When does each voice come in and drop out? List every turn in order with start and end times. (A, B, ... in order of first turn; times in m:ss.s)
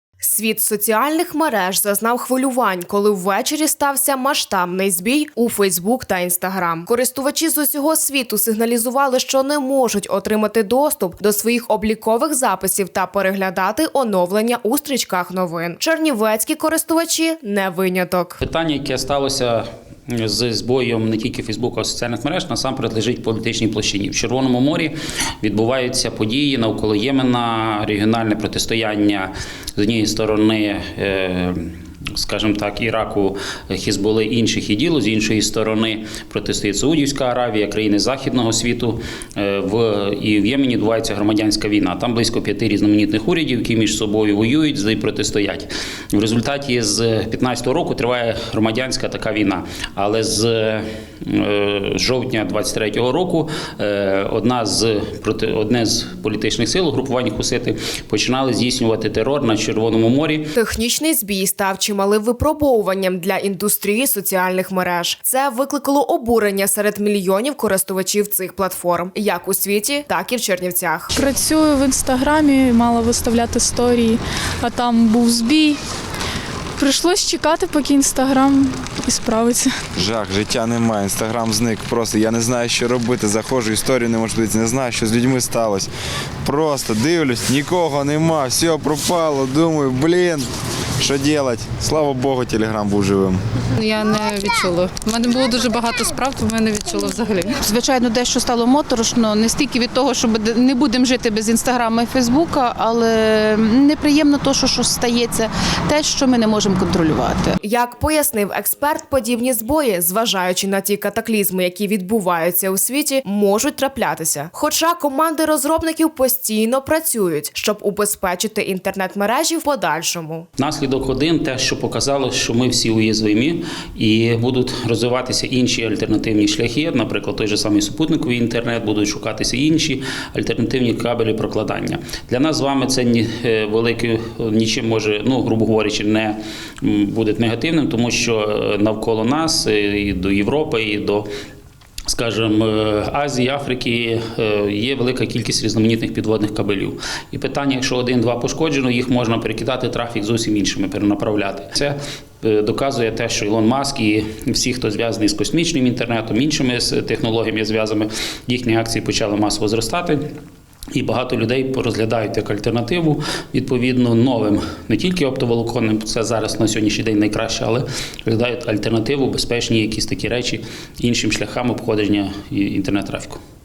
0:00.2-0:18.4 A
0:18.4-1:00.5 B
1:00.6-1:11.1 A
1:11.1-1:15.8 C
1:16.8-1:19.7 C
1:20.0-1:25.9 D
1:26.4-1:30.5 D
1:31.0-1:33.4 D
1:33.8-1:37.6 E
1:37.6-1:47.6 F
1:47.6-2:00.4 A
2:00.6-2:21.3 B
2:22.1-2:40.2 B
2:41.0-2:53.4 B